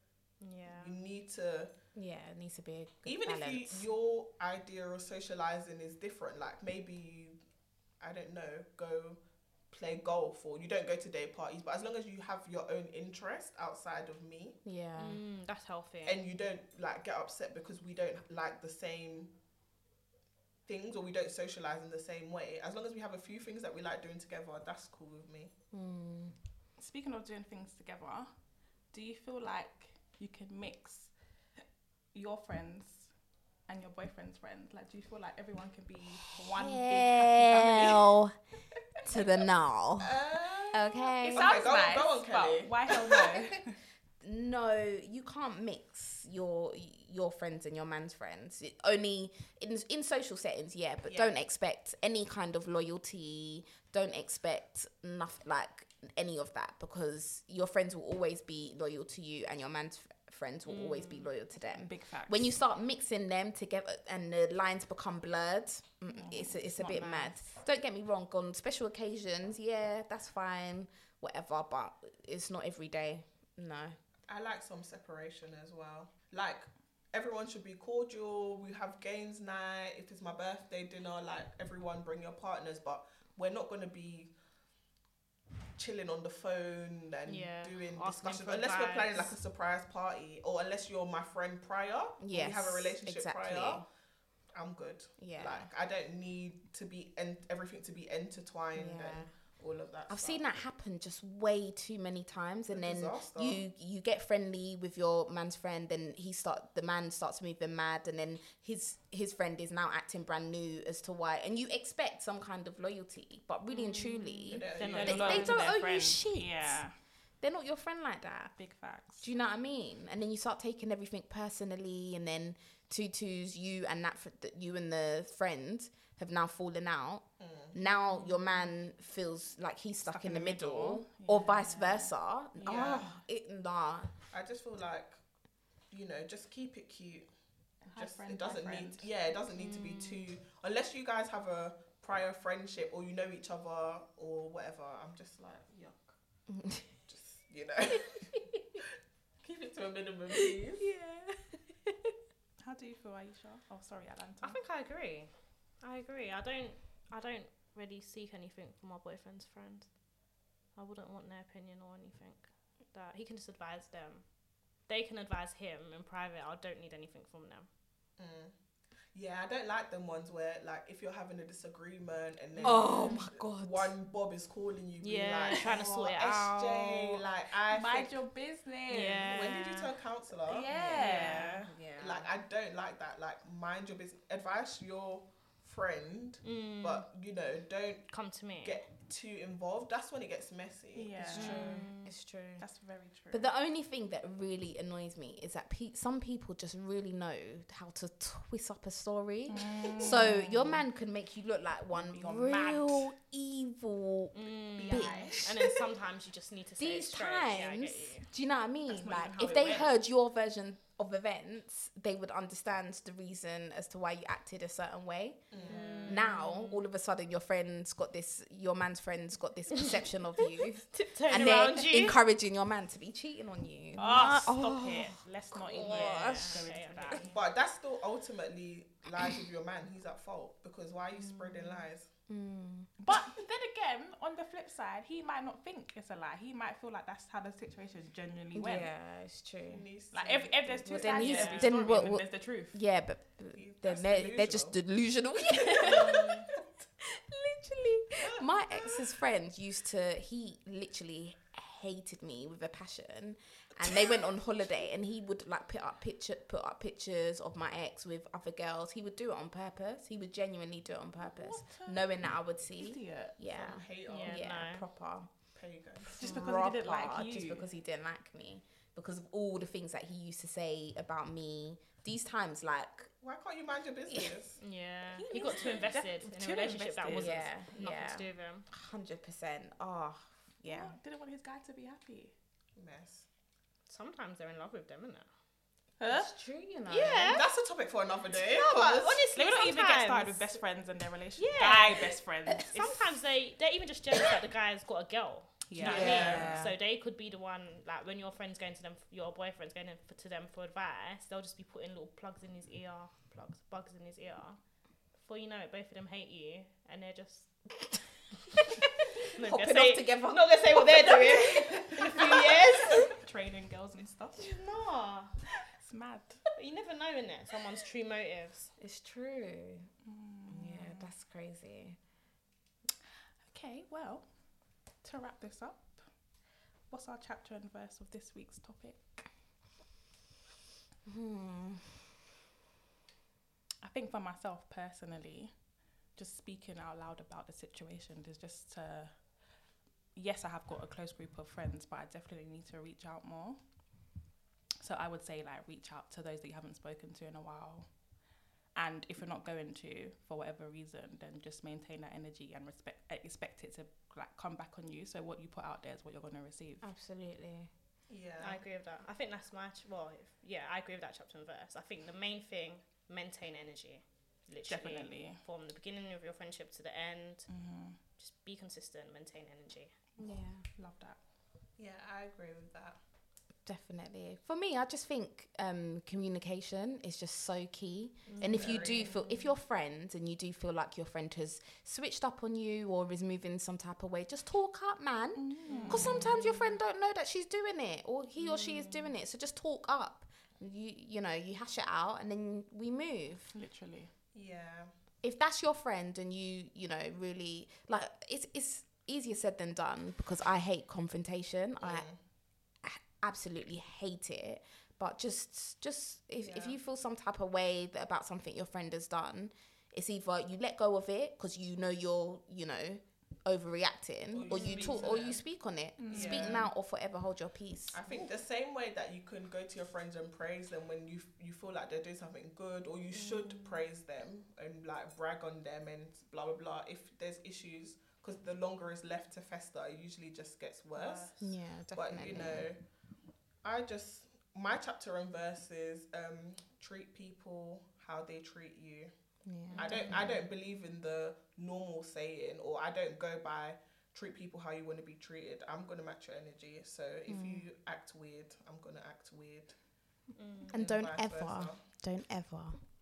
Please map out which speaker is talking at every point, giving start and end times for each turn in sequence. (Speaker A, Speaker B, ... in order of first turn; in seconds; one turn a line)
Speaker A: 0.4-0.9
Speaker B: 0.7-1.7
Speaker C: 1.9-3.9
Speaker B: 3.0-7.4
Speaker B: 8.0-14.6
Speaker C: 14.6-15.2
Speaker A: 14.9-16.2
Speaker B: 16.0-19.3
Speaker B: 20.7-25.5
Speaker C: 25.7-26.3
Speaker D: 26.8-28.3
Speaker D: 28.9-31.1
Speaker D: 32.1-33.1
Speaker D: 33.7-38.2
Speaker C: 36.4-38.3
Speaker C: 39.0-40.2
Speaker B: 40.0-43.4
Speaker C: 40.7-41.7
Speaker D: 41.2-43.8
Speaker C: 44.2-74.0
Speaker B: 51.1-51.3
Speaker A: 60.6-61.3
Speaker D: 61.7-62.5
Speaker D: 66.1-67.4
Speaker B: 74.3-84.3
Speaker B: 85.8-93.8
Speaker A: 87.2-89.3
Speaker C: 92.2-93.8
Speaker B: 94.5-100.4
Speaker C: 95.2-95.7
Speaker C: 98.7-99.3
Speaker C: 100.1-116.8
Speaker B: 102.7-103.6
Speaker A: 113.7-115.7
Speaker B: 114.5-115.5
Speaker D: 114.8-116.9
Speaker C: 117.4-118.6
Speaker D: 118.6-119.2
Speaker C: 119.2-134.1
Speaker B: 127.4-127.8
Speaker D: 130.1-133.1
Speaker B: 132.6-133.1
Speaker B: 134.3-135.2
Speaker B: 135.9-137.3
Speaker D: 137.8-139.1
Speaker B: 137.9-146.1
Speaker C: 146.5-146.8
Speaker B: 147.1-148.5
Speaker C: 147.9-148.8
Speaker B: 149.4-150.8
Speaker C: 150.3-152.1
Speaker D: 152.6-154.6
Speaker A: 154.4-155.3
Speaker A: 155.8-159.9
Speaker A: 160.8-164.2
Speaker A: 164.9-167.7
Speaker B: 168.2-168.5
Speaker B: 169.1-178.2
Speaker C: 172.6-173.9
Speaker A: 175.0-177.2
Speaker D: 177.7-179.3
Speaker A: 178.9-180.0
Speaker B: 179.2-180.7
Speaker D: 180.4-181.7
Speaker C: 180.7-182.3
Speaker A: 180.9-181.7
Speaker B: 182.0-188.1
Speaker A: 186.4-187.0
Speaker A: 188.1-188.8
Speaker B: 188.6-191.6
Speaker D: 190.9-191.9
Speaker C: 191.2-192.6
Speaker A: 191.3-192.2
Speaker D: 192.6-193.5
Speaker C: 193.3-205.3
Speaker D: 199.5-200.8
Speaker D: 201.9-203.0
Speaker A: 204.3-208.2
Speaker B: 204.8-205.8
Speaker D: 204.9-205.4
Speaker C: 206.8-215.4
Speaker D: 208.9-209.9
Speaker B: 215.5-216.1
Speaker D: 215.6-216.2
Speaker A: 215.6-216.8
Speaker C: 216.0-226.6
Speaker A: 219.7-222.2
Speaker D: 223.9-227.3
Speaker A: 225.8-227.3
Speaker B: 227.3-232.1
Speaker C: 232.3-232.9
Speaker D: 233.0-238.9
Speaker C: 238.5-239.8
Speaker B: 239.7-242.0
Speaker D: 240.1-242.8
Speaker C: 240.8-246.4
Speaker B: 243.5-244.8
Speaker B: 245.7-246.2
Speaker A: 245.8-246.5
Speaker C: 247.0-265.3
Speaker B: 248.2-249.0
Speaker D: 261.2-263.4
Speaker B: 263.4-264.5
Speaker A: 264.1-264.8
Speaker B: 265.5-266.4
Speaker C: 266.1-273.1
Speaker D: 266.1-267.7
Speaker B: 273.2-274.6
Speaker A: 274.6-278.7
Speaker D: 275.1-277.4
Speaker C: 277.1-280.9
Speaker D: 280.6-282.3
Speaker B: 282.8-283.2
Speaker A: 283.9-285.3
Speaker D: 286.0-286.3
Speaker C: 286.1-287.3
Speaker A: 286.9-287.5
Speaker B: 287.3-289.2
Speaker A: 288.3-290.6
Speaker D: 289.3-293.1
Speaker A: 291.4-304.6
Speaker D: 295.7-296.7
Speaker B: 295.8-296.5
Speaker C: 295.8-296.7
Speaker A: 305.2-307.5
Speaker C: 308.6-313.1
Speaker A: 309.3-313.1
Speaker D: 312.8-314.6
Speaker A: 314.4-315.3
Speaker D: 315.7-316.4
Speaker A: 316.5-318.7
Speaker C: 318.8-319.9
Speaker D: 320.0-321.1
Speaker C: 320.5-322.0
Speaker D: 323.5-324.2
Speaker D: 325.0-326.0
Speaker D: 326.9-329.0
Speaker C: 331.1-332.0
Speaker D: 333.8-335.5
Speaker D: 336.1-339.1
Speaker D: 340.1-343.6
Speaker D: 344.8-347.9
Speaker D: 348.8-356.9
Speaker C: 356.8-357.7
Speaker B: 358.1-358.6
Speaker A: 358.4-367.5
Speaker D: 364.7-365.4
Speaker D: 367.5-368.0
Speaker A: 368.2-369.9
Speaker C: 370.2-370.6
Speaker D: 370.2-371.2
Speaker B: 371.8-373.0
Speaker C: 373.6-393.5
Speaker A: 378.3-379.1
Speaker B: 378.3-379.1
Speaker D: 385.4-386.6
Speaker B: 385.7-386.3
Speaker A: 388.4-389.1
Speaker D: 393.5-394.1
Speaker B: 394.3-394.9
Speaker C: 395.2-402.1
Speaker B: 401.8-402.2
Speaker C: 402.8-418.0
Speaker B: 406.4-406.8
Speaker B: 414.3-415.4
Speaker A: 414.5-414.9
Speaker D: 416.0-416.7
Speaker B: 416.1-416.7
Speaker B: 417.9-431.4
Speaker A: 423.2-423.7
Speaker D: 430.9-431.4
Speaker C: 431.4-432.7
Speaker B: 431.9-432.8
Speaker B: 433.6-439.1
Speaker C: 439.4-440.3
Speaker A: 439.7-440.3
Speaker B: 439.8-449.7
Speaker C: 447.3-447.6
Speaker A: 450.3-450.7
Speaker C: 450.7-452.8
Speaker B: 450.7-451.8